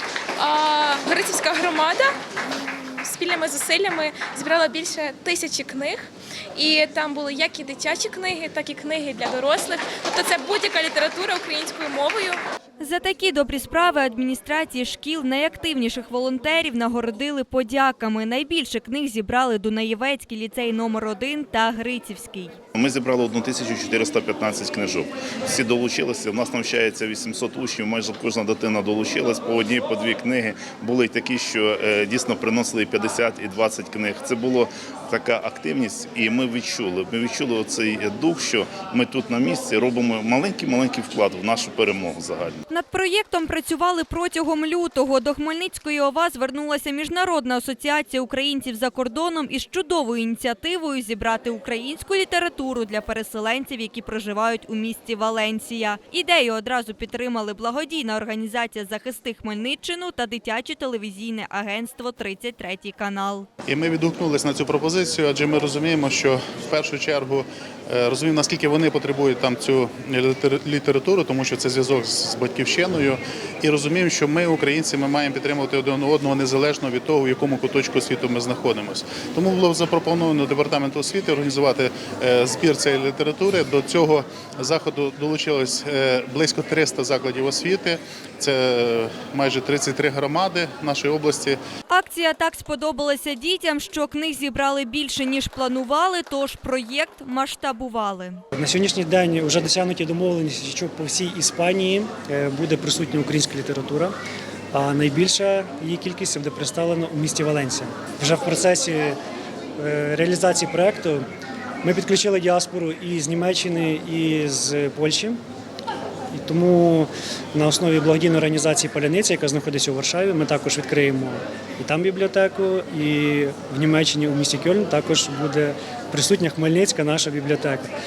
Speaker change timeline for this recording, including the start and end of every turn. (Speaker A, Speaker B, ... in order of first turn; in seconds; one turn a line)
Speaker A: 0.4-2.1
Speaker A: 2.6-12.4
Speaker B: 12.8-22.6
Speaker C: 22.8-42.6
Speaker B: 42.7-63.5
Speaker D: 63.7-91.6
Speaker B: 91.9-98.4
Speaker E: 98.5-104.1
Speaker E: 104.7-109.2
Speaker E: 109.8-111.2
Speaker E: 111.8-115.4
Speaker E: 116.3-127.9